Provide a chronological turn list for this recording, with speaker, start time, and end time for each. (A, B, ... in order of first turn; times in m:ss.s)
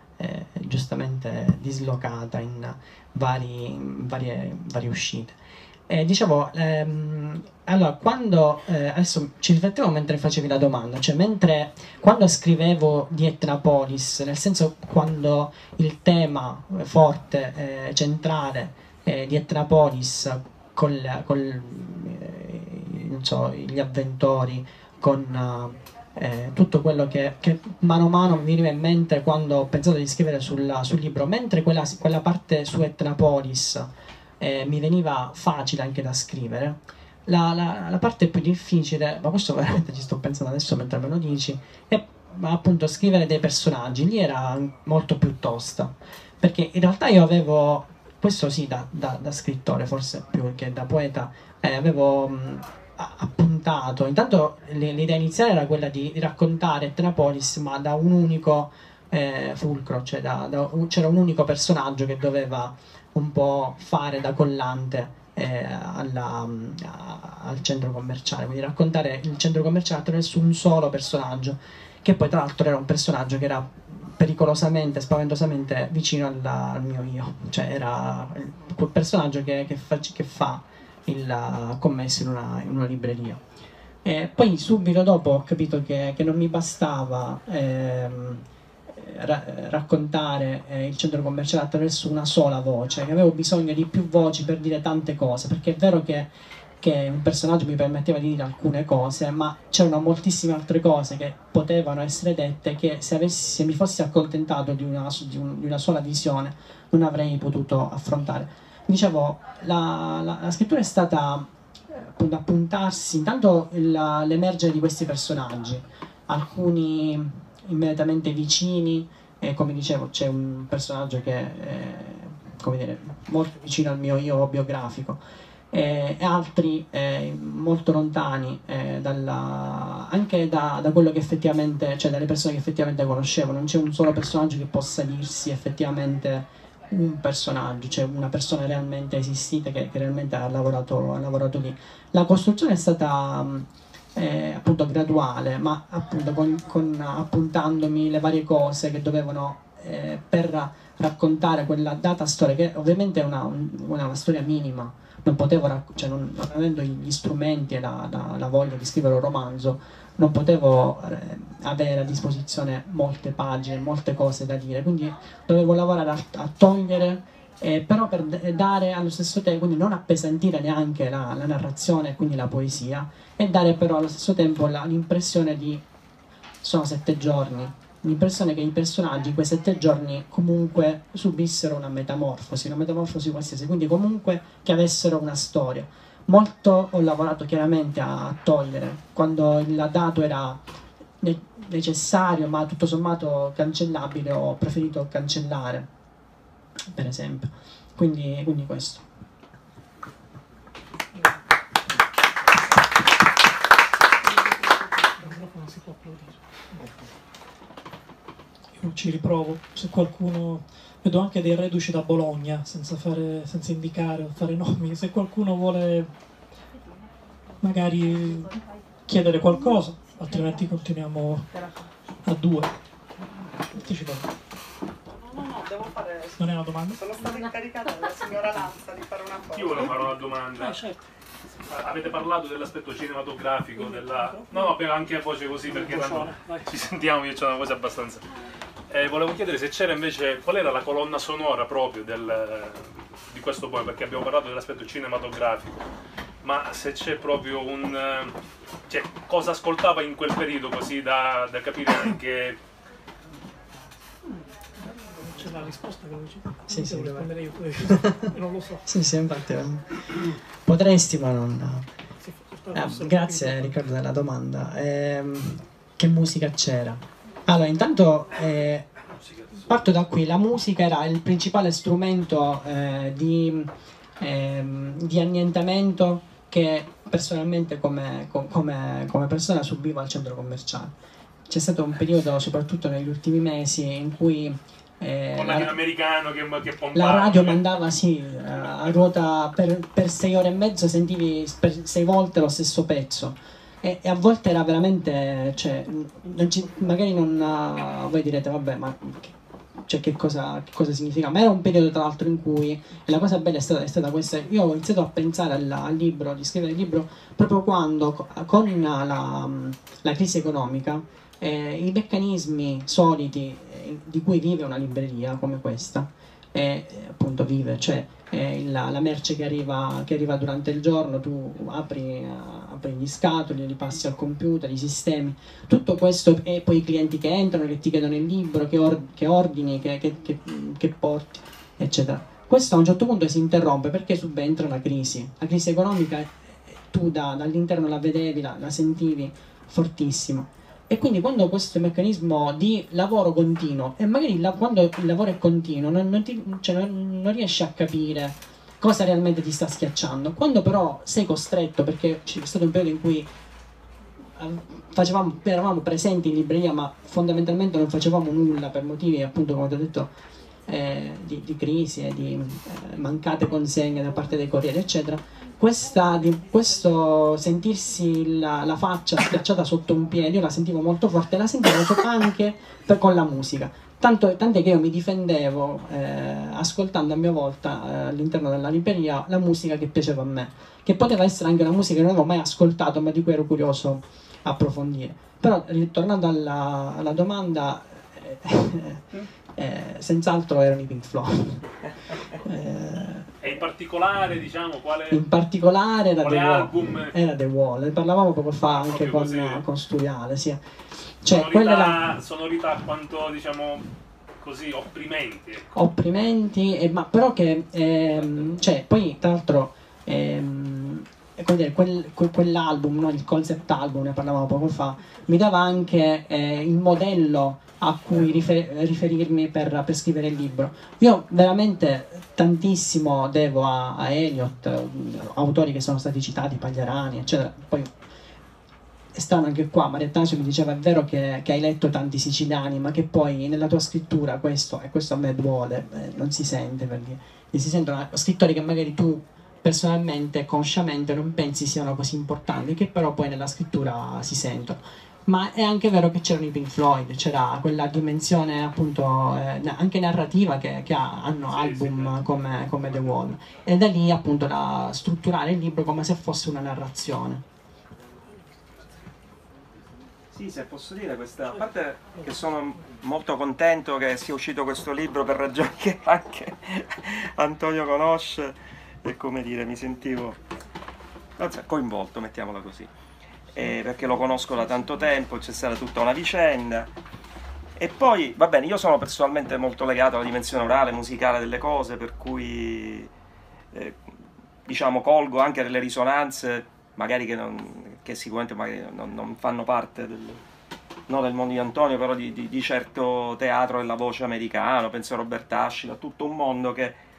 0:00.2-0:05.4 A
0:05.9-1:23.4 A
1:24.0-2:05.2 A
2:05.7-2:55.8 A
2:56.6-3:10.6 A
3:11.2-3:15.9 A
3:16.9-3:19.0 A
3:25.2-3:26.3 B
3:28.8-3:36.1 B
3:37.6-3:41.5 B
3:41.5-3:41.9 C
3:42.2-3:42.8 B
3:43.7-3:44.3 B
3:45.2-3:46.4 C
3:46.4-3:47.0 B
3:46.9-3:50.1 C
3:49.5-3:50.8 D
3:50.6-3:51.0 B
3:51.6-3:58.2 D
3:53.8-3:54.7 B
3:55.7-3:56.7 B
3:58.9-4:05.8 D
4:06.4-4:08.4 D
4:08.9-4:12.6 D
4:14.8-4:18.8 B
4:16.7-4:18.2 A
4:18.9-4:21.9 A
4:22.2-4:23.6 B
4:22.7-4:28.9 A
4:29.7-4:40.9 A
4:41.5-4:45.8 A
4:45.4-4:47.6 D
4:46.9-5:53.3 A
5:54.4-6:00.1 A
6:00.7-6:31.8 A
6:32.3-6:33.3 A
6:33.4-6:35.2 D
6:35.1-6:40.6 A
6:36.2-6:37.2 D
6:38.7-6:39.7 D
6:41.2-6:42.1 A
6:41.3-6:43.9 D
6:44.4-6:45.7 D
6:45.7-7:07.9 A
7:09.1-7:37.4 A
7:31.5-7:32.1 D
7:40.3-7:50.4 E
7:51.4-7:52.9 E
7:53.5-7:56.9 E
7:57.8-8:03.1 E
8:03.7-8:04.0 E
8:04.7-8:10.4 E
8:11.1-8:17.0 E